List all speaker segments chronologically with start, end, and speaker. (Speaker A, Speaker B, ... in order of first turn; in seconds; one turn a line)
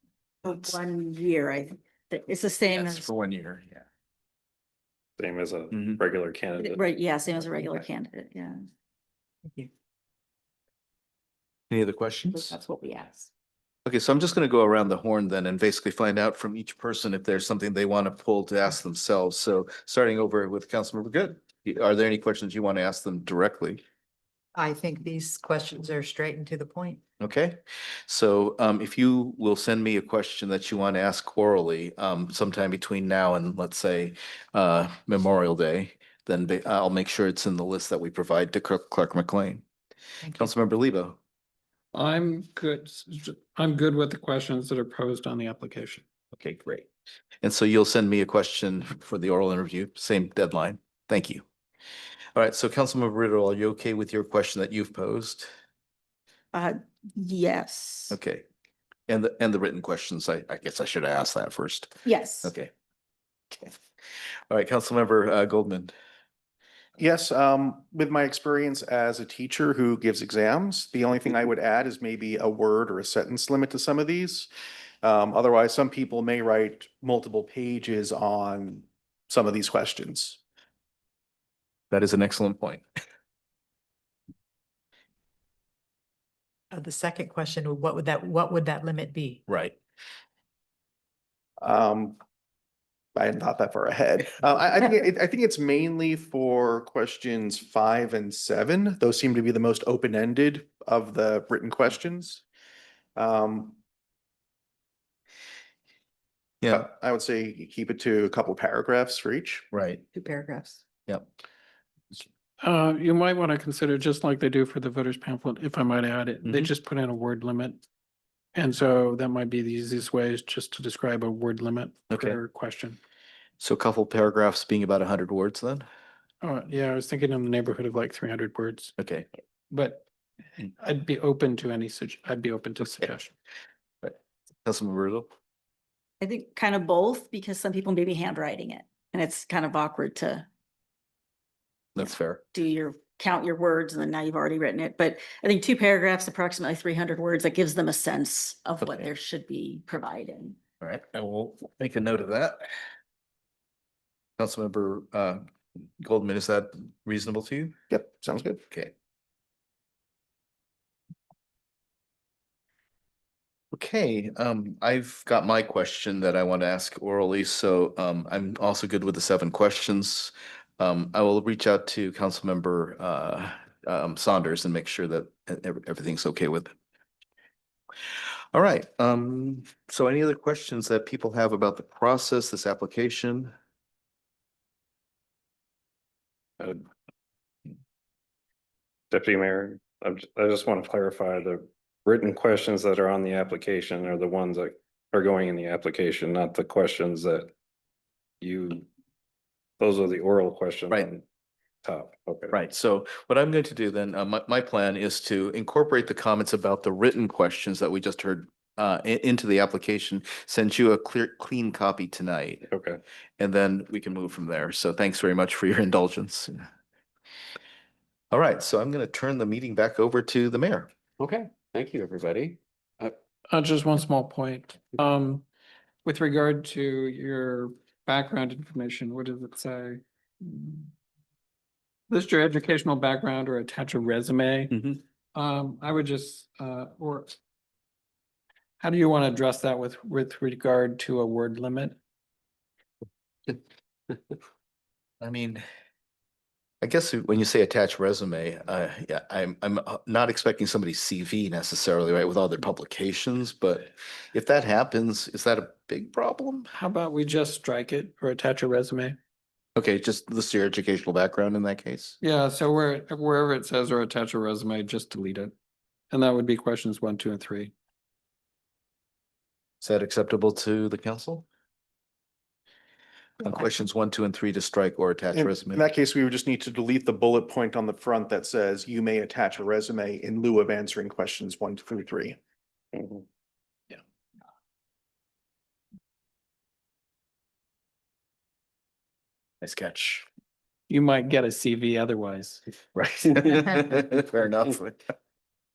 Speaker A: 0.4-3.1
Speaker B: 2.7-3.8
Speaker C: 5.2-6.8
Speaker B: 5.7-6.0
Speaker A: 6.6-8.6
Speaker B: 11.7-12.6
Speaker A: 12.3-13.3
Speaker B: 13.8-23.8
Speaker D: 24.6-27.0
Speaker B: 27.2-39.6
Speaker B: 40.3-41.2
Speaker E: 41.9-46.0
Speaker B: 46.3-46.9
Speaker B: 47.4-51.4
Speaker B: 52.3-55.5
Speaker A: 56.5-58.2
Speaker B: 58.1-58.4
Speaker B: 59.1-62.7
Speaker A: 62.0-62.5
Speaker B: 64.5-65.9
Speaker F: 67.0-74.5
Speaker F: 75.0-80.4
Speaker B: 81.9-82.8
Speaker D: 86.7-89.4
Speaker B: 89.5-89.7
Speaker F: 91.6-92.2
Speaker F: 93.2-102.4
Speaker F: 103.2-103.8
Speaker F: 106.7-109.7
Speaker B: 109.7-110.0
Speaker D: 110.1-110.8
Speaker E: 112.6-117.8
Speaker B: 116.4-116.7
Speaker E: 118.5-123.0
Speaker B: 122.1-122.4
Speaker B: 123.6-125.8
Speaker E: 126.4-128.9
Speaker B: 129.0-129.2
Speaker E: 129.7-130.0
Speaker E: 130.6-133.3
Speaker B: 134.0-135.3
Speaker A: 136.2-140.4
Speaker B: 141.9-142.4
Speaker A: 142.0-150.6
Speaker B: 150.8-152.7
Speaker B: 154.4-155.4
Speaker B: 156.0-157.7
Speaker F: 157.9-158.6
Speaker B: 163.7-176.7
Speaker B: 178.5-183.5
Speaker C: 186.6-186.8
Speaker C: 189.1-197.5
Speaker C: 198.4-198.8
Speaker C: 199.8-201.2
Speaker C: 201.8-202.5
Speaker B: 202.5-212.6
Speaker C: 212.7-213.0
Speaker B: 213.4-216.6
Speaker B: 218.3-220.9
Speaker G: 221.2-223.2
Speaker E: 223.5-225.4
Speaker E: 226.0-230.9
Speaker E: 232.1-237.3
Speaker B: 234.7-235.0
Speaker E: 238.8-241.9
Speaker B: 245.2-245.6
Speaker B: 246.8-256.7
Speaker E: 256.8-259.2
Speaker B: 259.8-262.2
Speaker E: 262.2-265.5
Speaker E: 266.1-267.7
Speaker B: 269.8-271.4
Speaker B: 273.4-275.8
Speaker F: 275.3-282.4
Speaker C: 282.9-283.2
Speaker B: 289.6-290.2
Speaker E: 290.9-292.6
Speaker B: 292.9-295.0